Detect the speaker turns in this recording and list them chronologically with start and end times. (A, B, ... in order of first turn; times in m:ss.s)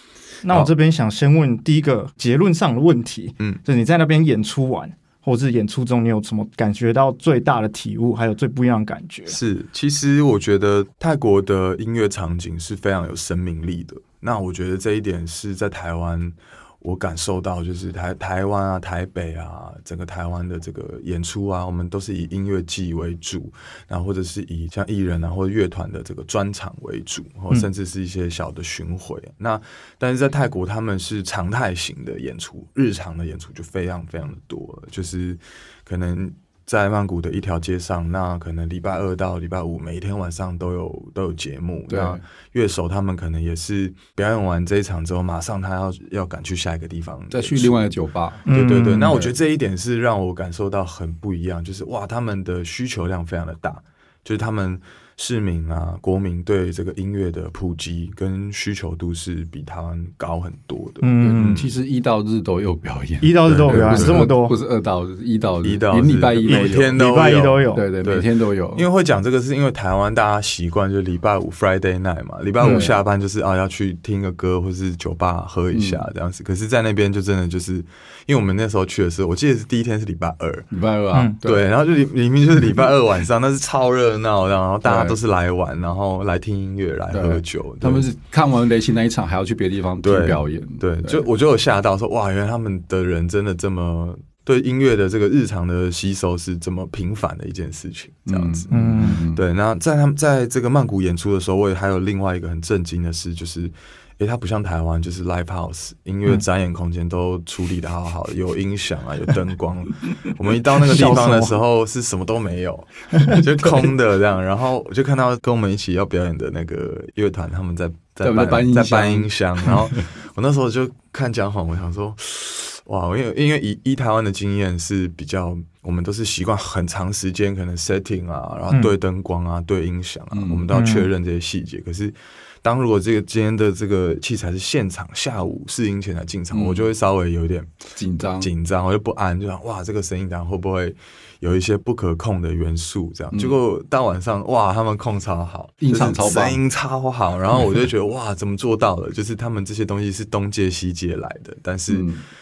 0:00.4-0:09.4 A
0:00.5-0:00.7 B
0:09.3-0:47.8 B
0:41.9-0:42.2 C
0:47.3-0:48.5 C
0:48.4-0:49.2 A
0:48.5-1:01.8 B
1:01.0-1:01.6 A
1:01.2-1:06.9 C
1:03.2-1:04.6 A
1:03.5-1:04.3 B
1:05.6-1:20.7 B
1:06.4-1:07.8 A
1:07.8-1:08.8 C
1:12.6-1:12.9 C
1:12.6-1:12.9 A
1:15.7-1:16.1 C
1:20.7-1:21.7 C
1:21.4-1:28.1 B
1:24.8-1:25.2 C
1:27.1-1:31.3 C
1:30.0-2:17.7 B
1:38.3-1:39.4 C
1:38.7-1:39.2 A
1:50.7-1:51.6 A
1:53.1-1:53.4 A
1:58.2-2:00.1 C
2:10.3-2:10.7 C
2:10.7-2:11.1 A
2:16.5-2:16.9 C
2:18.0-2:18.5 C
2:18.4-2:32.1 B
2:23.3-2:23.6 C
2:25.8-2:26.6 C
2:31.9-2:32.2 C